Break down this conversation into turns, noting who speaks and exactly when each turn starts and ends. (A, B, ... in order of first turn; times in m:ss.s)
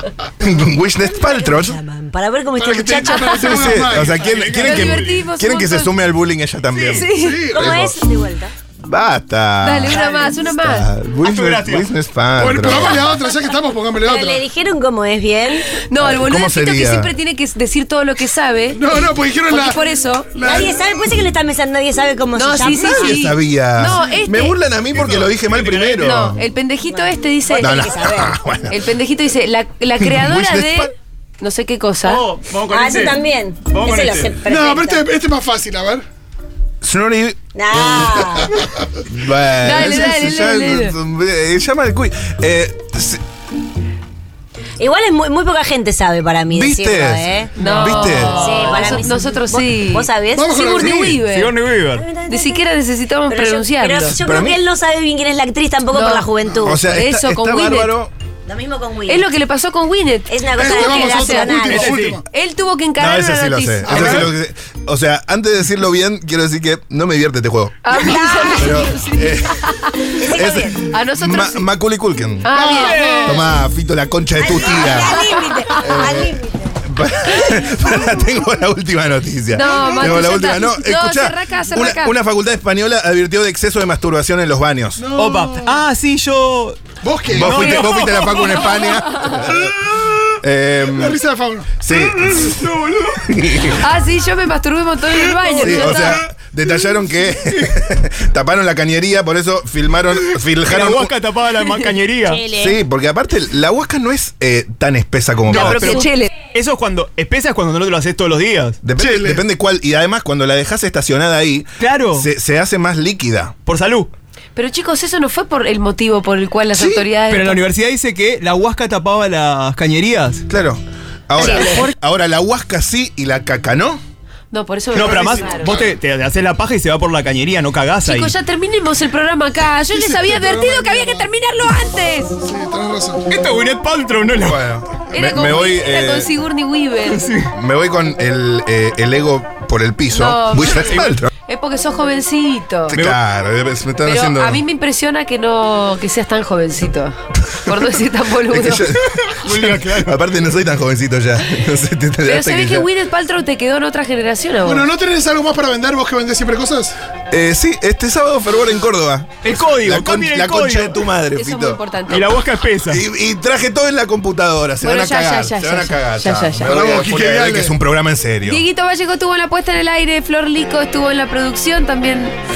0:00.4-0:01.8 A
0:01.1-0:03.2 B
0:02.6-0:04.2 C
0:03.0-0:03.6 D
0:03.3-0:08.0 A
0:03.7-0:05.2 E
0:04.6-0:05.9 D
0:06.7-0:07.1 E
0:06.9-0:07.5 D
0:07.1-0:07.9 C
0:07.5-0:08.5 B
0:08.8-0:13.1 A
0:09.6-0:10.9 D
0:09.9-0:10.4 E
0:11.2-0:11.9 E
0:12.4-0:14.5 C
0:14.0-0:15.7 B
0:15.7-0:18.8 D
0:16.0-0:17.1 A
0:18.7-0:19.8 C
0:19.5-0:20.3 D
0:20.3-0:21.2 C
0:20.4-0:23.2 B
0:22.3-0:24.6 D
0:22.7-0:26.4 A
0:24.9-0:26.3 E
0:26.0-0:28.1 D
0:26.9-0:28.3 B
0:27.6-0:28.8 A
0:28.7-0:32.2 D
0:30.0-0:30.9 A
0:32.0-0:34.4 E
0:32.7-0:35.1 B
0:34.4-0:36.0 C
0:36.8-0:38.5 A
0:37.6-0:38.5 B
0:39.0-0:43.2 A
0:39.6-0:41.0 D
0:44.8-0:47.5 B
0:46.5-0:48.5 A
0:47.6-0:51.6 D
0:47.6-0:48.9 E
0:48.4-0:50.4 B
0:50.3-0:51.2 C
0:51.2-0:52.1 E
0:52.0-0:52.6 B
0:52.3-0:54.2 D
0:53.3-0:56.8 B
0:54.2-0:54.6 A
0:55.9-0:56.3 D
0:56.5-0:56.8 C
0:56.6-0:58.1 A
0:56.8-0:57.9 D
0:58.5-0:59.3 B
0:59.1-1:01.6 D
1:00.3-1:02.0 B
1:00.5-1:02.2 C
1:01.6-1:02.2 E
1:02.3-1:04.2 D
1:03.0-1:09.6 A
1:03.8-1:04.3 C
1:07.8-1:10.2 D
1:08.1-1:08.7 B
1:10.2-1:10.8 B
1:10.3-1:12.5 A
1:10.9-1:11.7 D
1:12.4-1:13.4 D
1:12.5-1:13.2 C
1:12.7-1:13.5 E
1:13.2-1:25.0 A
1:14.4-1:16.8 B
1:19.5-1:22.2 D
1:19.7-1:20.2 C
1:25.0-1:25.8 C
1:25.2-1:26.8 E
1:27.0-1:28.1 C
1:27.3-1:29.7 A
1:27.4-1:29.4 E
1:29.6-1:30.1 C
1:30.4-1:31.2 A
1:30.8-1:31.8 C
1:31.8-1:32.7 A
1:32.2-1:33.6 E
1:33.2-1:33.8 A
1:33.6-1:36.2 D
1:35.5-1:36.2 E
1:35.6-1:41.1 A
1:40.7-1:42.4 E
1:42.3-1:42.8 B
1:42.6-1:46.0 A
1:45.5-1:48.8 E
1:45.5-1:46.3 D
1:48.8-1:53.5 A
1:49.0-1:49.4 C
1:51.8-1:52.3 E
1:53.7-1:54.1 E
1:54.6-1:57.6 D
1:56.7-1:57.1 A
1:57.3-2:00.4 E
2:00.5-2:04.0 A
2:01.4-2:01.8 D
2:04.5-2:05.8 D
2:04.9-2:08.3 E
2:05.0-2:05.8 C
2:08.0-2:12.4 D
2:09.9-2:11.3 C
2:12.4-2:13.2 C
2:13.3-2:14.6 E
2:14.4-2:16.3 A
2:15.1-2:17.2 D
2:17.1-2:17.5 E
2:17.5-2:21.3 A
2:20.1-2:23.0 D
2:20.9-2:21.2 E
2:22.9-2:24.6 A
2:24.0-2:28.9 D
2:28.5-2:32.9 A
2:29.1-2:30.2 E
2:32.2-2:34.9 D
2:34.6-2:37.0 C
2:37.3-2:41.8 A
2:39.4-2:41.0 E
2:41.3-2:42.3 D
2:42.1-2:43.0 E
2:42.8-2:48.6 A
2:44.8-2:46.8 D
2:46.6-2:47.8 C
2:48.4-2:52.4 D